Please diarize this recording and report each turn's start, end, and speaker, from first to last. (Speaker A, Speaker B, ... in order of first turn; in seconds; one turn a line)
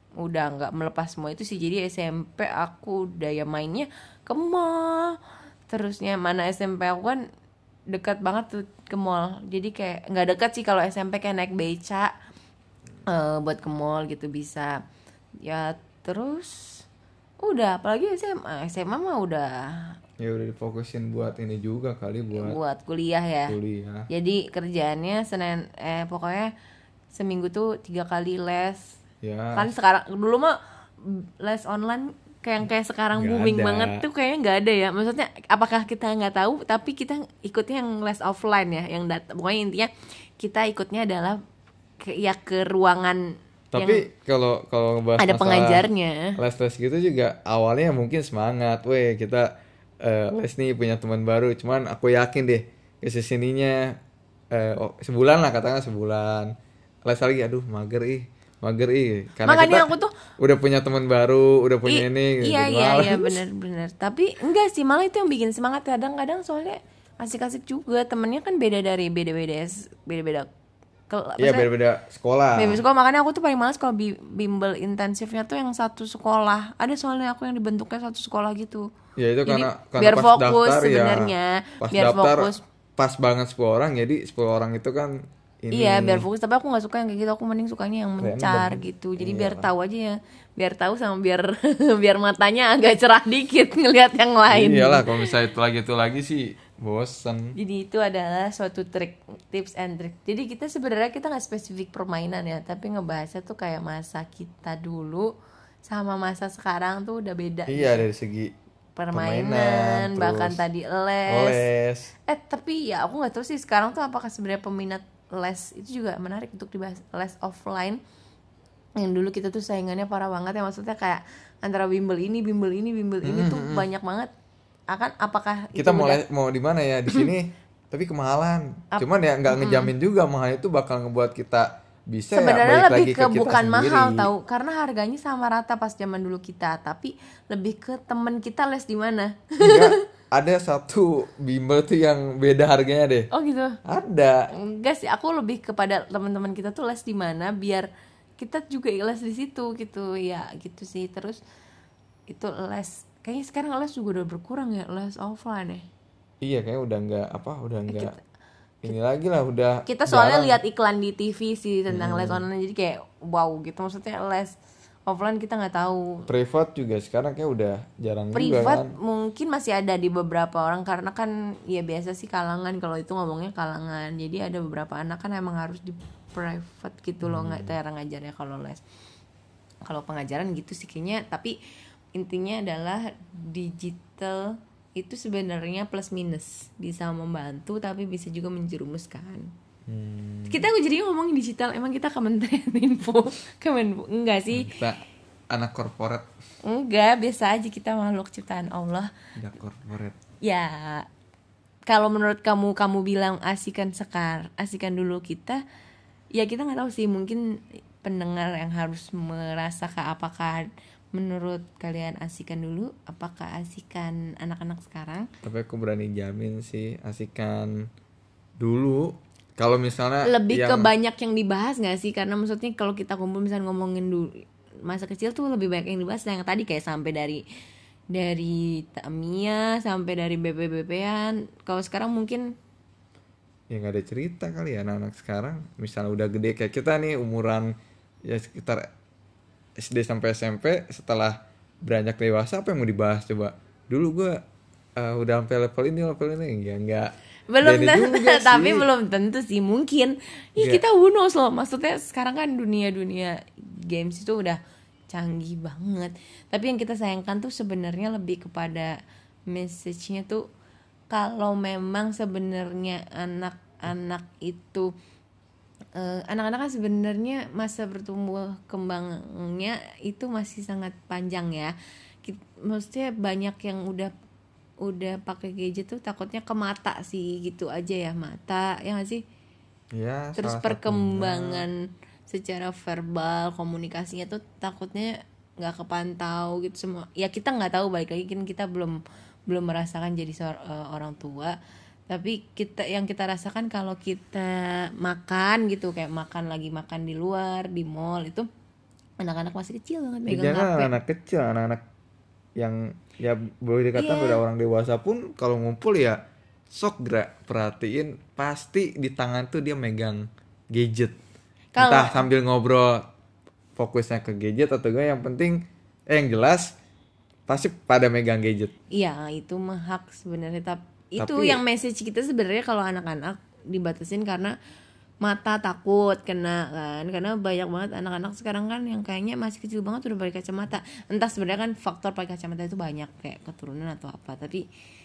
Speaker A: 0.2-5.2
Speaker A: 5.7-7.2
Speaker A: 7.9-12.1
Speaker A: 13.1-14.8
Speaker A: 15.4-16.9
Speaker A: 17.4-20.0
Speaker B: 20.2-22.6
Speaker A: 22.3-23.6
Speaker B: 23.5-24.1
Speaker A: 24.1-26.5
Speaker A: 27.1-29.0
Speaker B: 29.2-29.7
Speaker A: 29.6-41.4
Speaker B: 33.1-34.0
Speaker A: 42.0-44.1
Speaker B: 43.7-54.0
Speaker A: 45.2-46.4
Speaker B: 54.5-56.5
Speaker B: 57.0-63.4
Speaker A: 59.5-60.1
Speaker A: 61.9-70.5
Speaker A: 71.1-71.7
Speaker B: 71.4-72.8
Speaker A: 72.5-78.9
Speaker B: 79.2-86.3
Speaker A: 79.5-82.6
Speaker A: 85.7-95.3
Speaker B: 88.2-89.7
Speaker B: 94.5-97.6
Speaker A: 97.6-105.3
Speaker A: 105.8-108.1
Speaker B: 107.7-108.5
Speaker A: 109.0-111.7
Speaker B: 109.1-110.6
Speaker B: 111.3-112.1
Speaker A: 112.3-118.0
Speaker A: 119.0-124.3
Speaker B: 123.2-123.9
Speaker A: 124.9-126.2
Speaker B: 125.8-134.3
Speaker A: 128.9-129.9
Speaker A: 132.3-140.0
Speaker B: 139.6-143.3
Speaker A: 143.3-143.8
Speaker B: 143.8-144.5
Speaker A: 144.5-147.9
Speaker A: 148.4-151.4
Speaker A: 152.3-155.9
Speaker B: 156.4-158.2
Speaker A: 157.9-158.2
Speaker B: 158.8-160.6
Speaker A: 159.9-166.3
Speaker B: 161.9-162.4
Speaker B: 166.3-168.9
Speaker A: 168.3-178.8
Speaker B: 177.2-177.8
Speaker A: 179.8-181.6
Speaker A: 182.2-189.5
Speaker B: 189.9-190.7
Speaker A: 190.5-194.7
Speaker B: 194.5-196.3
Speaker A: 196.7-199.1
Speaker B: 199.4-200.2
Speaker A: 200.4-201.1
Speaker A: 201.9-205.6
Speaker A: 206.3-207.4
Speaker A: 208.0-215.3
Speaker B: 215.4-217.9
Speaker B: 218.6-220.9
Speaker A: 220.2-227.4
Speaker A: 228.1-232.6
Speaker B: 233.7-238.9
Speaker B: 239.8-244.4
Speaker B: 245.0-248.9
Speaker A: 247.5-259.0
Speaker B: 250.6-250.8
Speaker A: 259.5-260.5
Speaker A: 261.1-264.9
Speaker A: 265.9-271.7
Speaker A: 272.2-274.1
Speaker A: 274.8-279.2
Speaker B: 279.9-281.6
Speaker A: 280.4-281.8
Speaker A: 282.3-291.6
Speaker A: 292.1-298.5
Speaker A: 299.2-300.9
Speaker B: 300.3-301.8
Speaker B: 302.6-311.2
Speaker A: 303.9-304.4
Speaker A: 311.7-312.2
Speaker B: 311.8-313.1
Speaker B: 313.8-316.8
Speaker B: 317.5-318.7
Speaker A: 318.9-324.6
Speaker B: 321.2-321.6
Speaker A: 325.2-334.6